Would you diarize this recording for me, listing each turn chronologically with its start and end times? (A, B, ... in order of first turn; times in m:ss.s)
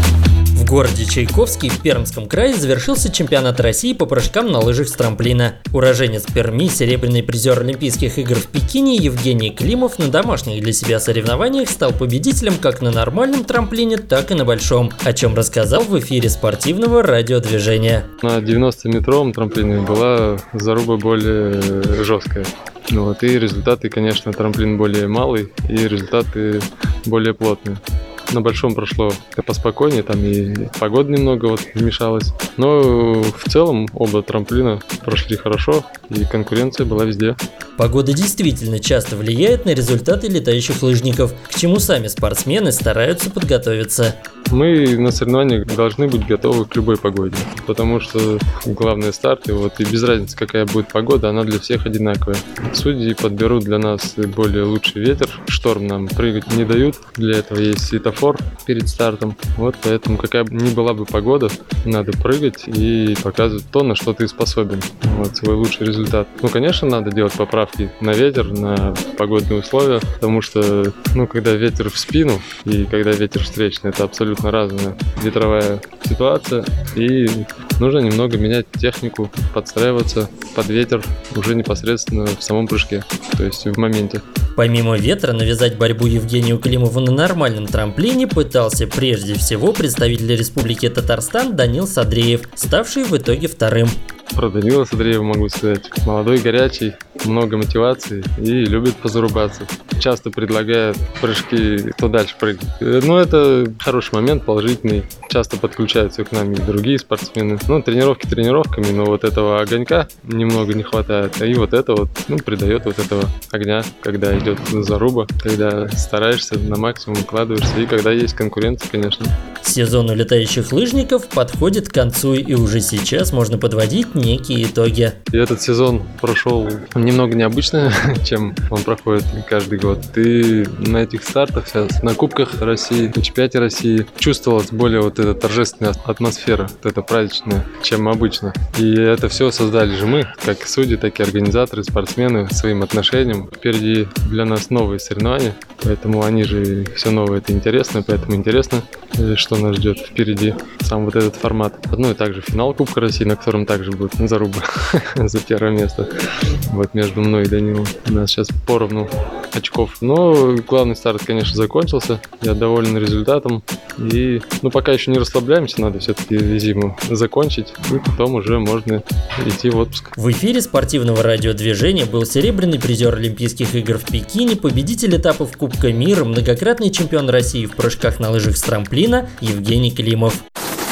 0:00.5-0:18.1 A
0:18.2-0:37.4 B
0:37.8-0:44.2 A
0:44.5-1:24.2 B
1:24.6-1:34.0 A
1:34.3-1:59.3 B
1:59.6-2:05.2 A
2:05.3-2:50.1 B
2:50.2-3:00.4 A